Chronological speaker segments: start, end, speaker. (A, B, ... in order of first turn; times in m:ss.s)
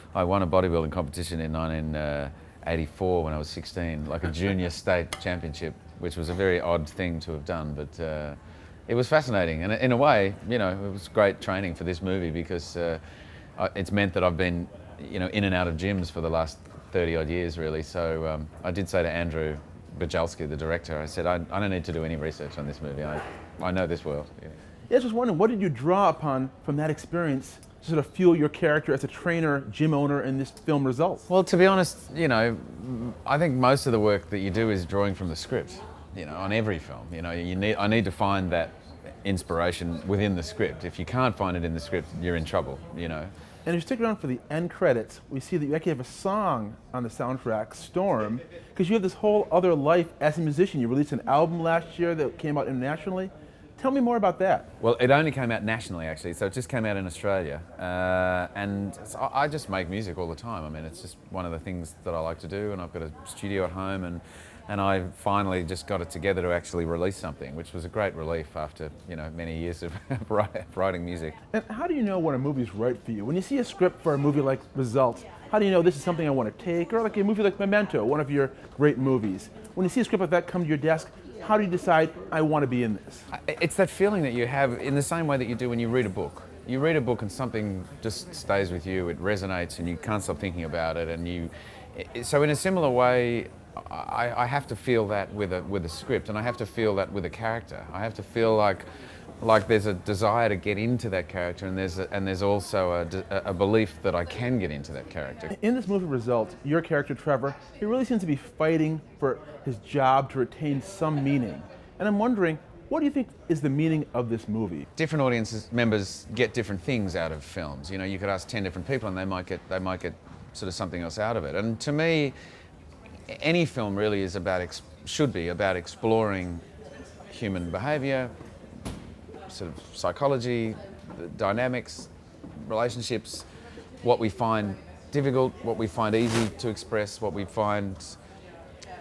0:00.1-0:13.0 A
0:13.6-0:24.6 A
0:24.9-0:31.2 B
0:31.3-0:43.3 A
0:43.6-0:54.7 B
0:54.8-1:11.4 A
1:11.5-1:23.3 B
1:23.3-1:38.8 A
1:39.4-1:45.6 A
1:45.5-1:54.9 B
1:55.0-2:02.4 A
2:03.3-2:06.6 A
2:07.3-2:08.3 A
2:09.5-2:12.1 A
2:12.6-2:13.5 A
2:14.0-2:18.2 A